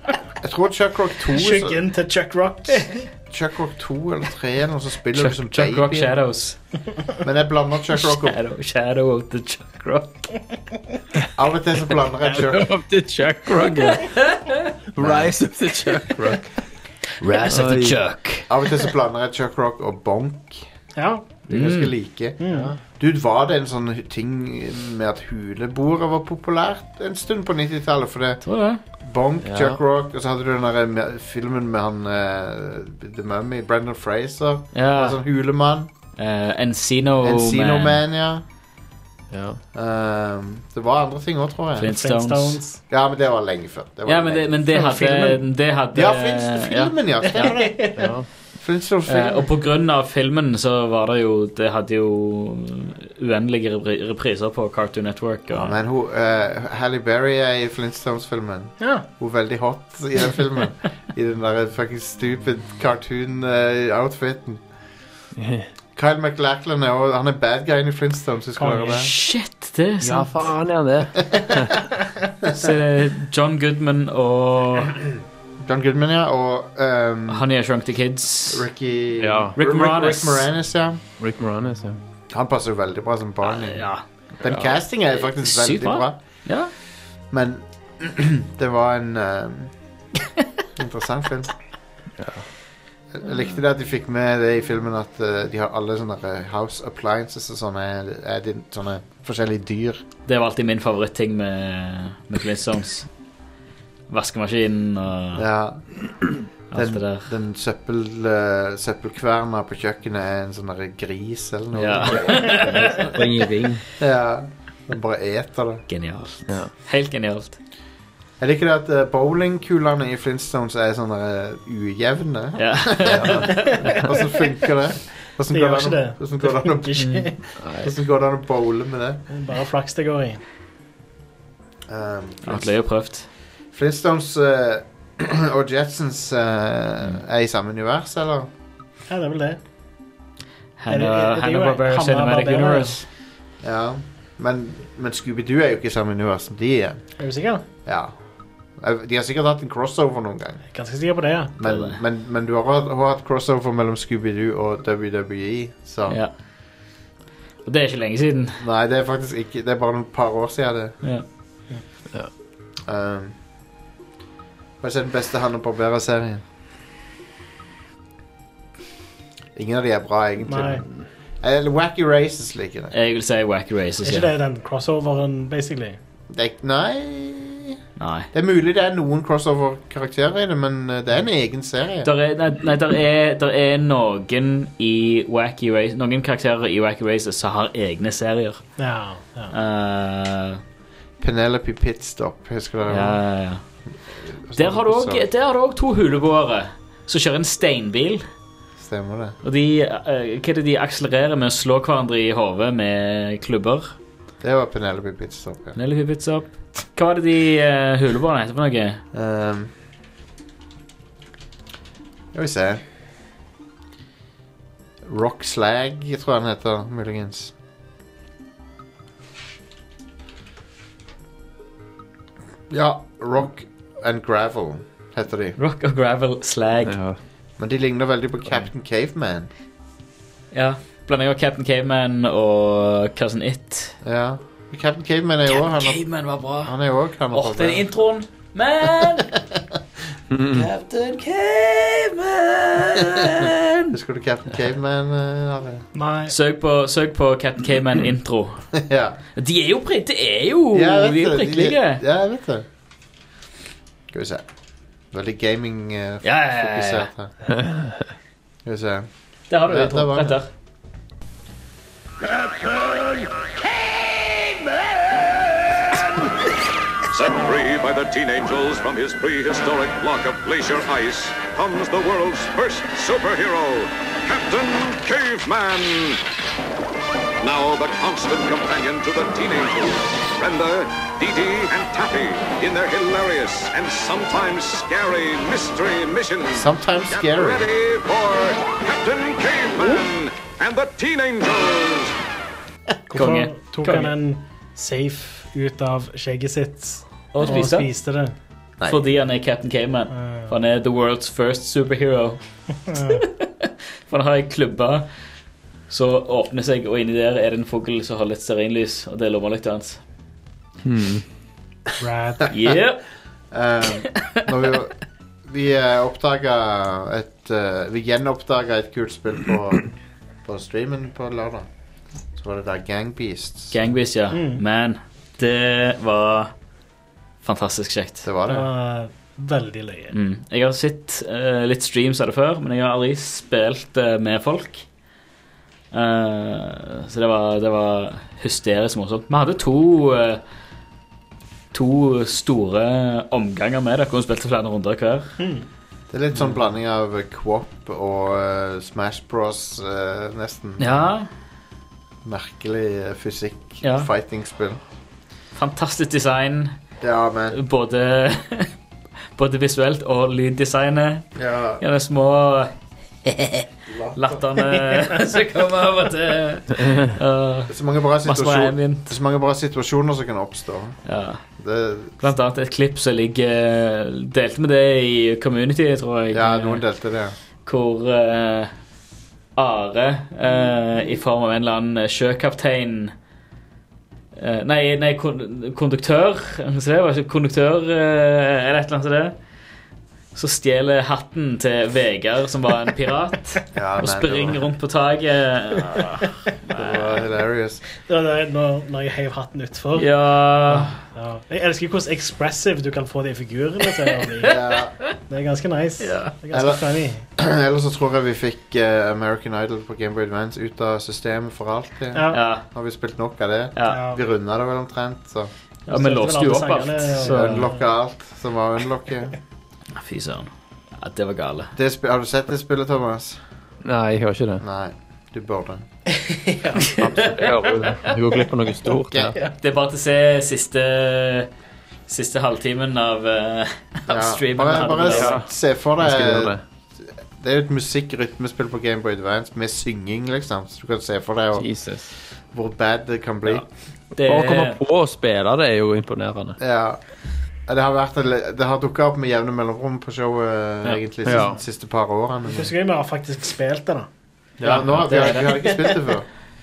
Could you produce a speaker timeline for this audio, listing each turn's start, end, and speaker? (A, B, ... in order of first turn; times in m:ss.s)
0:00.4-0:01.8 A
0:01.3-0:03.1 B
0:03.3-0:06.2 A
0:05.1-0:06.6 C
0:07.2-0:08.4 A
0:08.0-0:10.3 C
0:11.3-0:12.7 A
0:12.3-0:14.3 D
0:14.0-0:14.7 C
0:14.9-0:16.7 D
0:15.0-0:15.4 A
0:17.2-0:18.5 C
0:17.5-0:18.0 D
0:18.5-0:20.6 A
0:21.0-0:21.2 B
0:21.5-0:35.9 A
0:21.5-0:22.0 C
0:22.4-0:22.7 B
0:22.5-0:22.8 D
0:28.4-0:28.8 C
0:29.4-0:29.8 D
0:34.7-0:35.2 C
0:36.2-0:38.0 C
0:37.2-0:38.4 A
0:39.3-0:39.6 D
0:39.7-0:41.9 A
0:41.8-0:42.6 C
0:41.9-0:42.8 B
0:42.9-0:44.6 A
0:44.0-0:47.6 C
0:44.7-0:45.4 B
0:45.9-0:47.8 A
0:47.2-0:48.1 B
0:47.9-0:48.3 D
0:48.6-0:49.5 A
0:49.1-0:55.8 C
0:55.5-1:04.6 A
0:58.8-0:59.0 B
1:05.4-1:05.7 D
1:05.9-1:09.1 A
1:08.6-1:09.0 B
1:08.9-1:10.5 C
1:10.0-1:11.9 D
1:12.5-1:15.0 C
1:15.6-1:17.4 A
1:17.3-1:18.6 C
1:18.5-1:21.0 A
1:19.2-1:19.5 D
1:19.6-1:20.5 C
1:21.2-1:22.0 D
1:22.3-1:26.2 A
1:23.4-1:24.0 C
1:24.4-1:24.7 D
1:25.2-1:26.7 C
1:27.3-1:29.7 A
1:30.8-1:31.5 A
1:32.2-1:32.4 D
1:33.1-1:40.0 A
1:40.2-1:43.1 C
1:44.1-1:45.4 C
1:45.3-1:53.2 A
1:46.7-1:47.3 C
1:51.7-1:53.5 C
1:52.1-1:53.8 D
1:54.0-1:55.8 A
1:55.9-1:57.6 C
1:58.4-2:09.2 A
2:02.6-2:04.0 C
2:03.1-2:03.5 D
2:05.5-2:07.3 B
2:07.0-2:07.3 C
2:07.6-2:07.9 D
2:09.3-2:10.4 B
2:11.9-2:12.8 A
2:12.4-2:13.3 C
2:13.7-2:18.5 A
2:19.1-2:19.6 B
2:20.8-2:23.0 C
2:20.9-2:23.0 B
2:23.6-2:27.1 A
2:27.2-2:27.6 B
2:27.8-2:28.2 A
2:28.7-2:30.6 A
2:30.7-2:31.5 B
2:31.6-2:36.2 A
2:31.6-2:32.0 C
2:37.6-2:38.6 C
2:38.6-2:41.0 A
2:42.8-2:43.4 A
2:44.8-2:46.4 A
2:49.5-2:52.9 A
2:50.5-2:50.8 B
2:50.6-2:51.1 D
2:52.9-2:54.3 C
2:54.0-2:56.0 B
2:56.3-2:57.8 A
2:58.0-2:58.3 C
2:58.3-3:02.1 A
3:02.0-3:08.7 C
3:08.8-3:09.5 B
3:09.5-3:10.6 C
3:11.2-3:13.2 A
3:12.9-3:13.6 C
3:14.2-3:15.2 A
3:14.6-3:18.2 C
3:18.8-3:19.4 A
3:19.4-3:23.9 C
3:24.4-3:25.8 A
3:25.8-3:29.0 C
3:29.1-3:29.7 A
3:32.3-3:32.8 A
3:35.0-3:37.5 A
3:42.7-3:45.6 A
3:45.6-3:47.0 C
3:46.8-3:47.2 D
3:47.6-3:49.5 A
3:50.5-3:54.0 C
3:54.0-3:57.8 A
3:55.5-3:56.8 C
3:57.3-3:59.4 C
3:59.0-3:59.6 A
4:00.3-4:00.7 D
4:00.5-4:04.0 C
4:03.2-4:05.8 A
4:05.9-4:06.3 B
4:06.3-4:08.7 C
4:08.8-4:09.2 A
4:09.4-4:12.0 C
4:10.7-4:12.6 A
4:14.1-4:14.5 A
4:15.1-4:17.3 A
4:16.2-4:17.1 C
4:17.5-4:18.0 D
4:18.6-4:20.4 A
4:19.5-4:20.5 C
4:24.0-4:24.7 C
4:27.1-4:36.2 E
4:37.4-4:52.1 E
4:46.5-4:47.7 A
4:53.1-4:58.3 B
4:53.1-4:54.1 C
4:57.3-4:57.9 C
4:58.8-5:05.1 C
5:00.1-5:00.5 B
5:02.9-5:03.2 B
5:05.9-5:10.0 C
5:10.8-5:11.2 D
5:12.0-5:12.5 B
5:12.5-5:13.1 C
5:13.5-5:14.9 A
5:15.4-5:21.7 A
5:22.3-5:23.8 A
5:23.7-5:26.5 C
5:24.3-5:24.6 B
5:27.4-5:28.3 C
5:28.2-5:28.7 A
5:28.4-5:30.1 B
5:30.1-5:34.8 C
5:35.9-5:40.4 C
5:41.7-5:45.4 C
5:45.4-5:45.6 B
5:46.1-5:51.1 A
5:50.8-5:51.3 C
5:52.2-5:54.8 A
5:53.8-5:54.1 C
5:55.5-5:56.8 C
5:57.0-5:57.6 A
5:57.5-5:58.7 C
5:59.4-6:02.7 C
6:01.4-6:01.8 A
6:03.2-6:09.2 C
6:03.9-6:04.4 A
6:07.7-6:11.0 A
6:11.0-6:11.4 C
6:11.6-6:12.3 A
6:12.2-6:16.8 C
6:16.3-6:17.3 A
6:17.6-6:18.7 C
6:19.6-6:23.1 C
6:24.4-6:29.3 C
6:30.3-6:37.2 C
6:33.7-6:34.6 A
6:36.7-6:37.8 A
6:38.0-6:40.1 B
6:40.0-6:41.0 C
6:40.7-6:44.6 B
6:44.4-6:44.9 A
6:45.3-6:47.2 B
6:46.0-6:46.3 C
6:46.5-6:46.8 A
6:47.4-6:55.5 A
6:52.1-6:52.4 B
6:52.3-6:52.6 C
6:53.8-6:54.0 C
6:53.8-6:54.2 B
6:55.9-6:57.7 C
6:55.9-6:57.7 B
6:57.2-6:59.4 A
7:00.0-7:01.7 C
7:01.8-7:03.4 A
7:03.8-7:04.6 D
7:04.6-7:05.8 A
7:06.1-7:07.0 B
7:06.8-7:09.4 D
7:08.9-7:09.3 A
7:09.6-7:11.5 C
7:12.1-7:15.4 C
7:14.1-7:21.7 A
7:15.0-7:15.5 D
7:16.0-7:16.6 D
7:21.5-7:22.1 D
7:22.5-7:23.6 A
7:23.4-7:24.8 C
7:24.2-7:26.6 D
7:26.6-7:27.0 A
7:27.7-7:32.7 A
7:31.2-7:31.6 D
7:32.5-7:34.1 B
7:34.6-7:36.3 A
7:34.6-7:35.8 C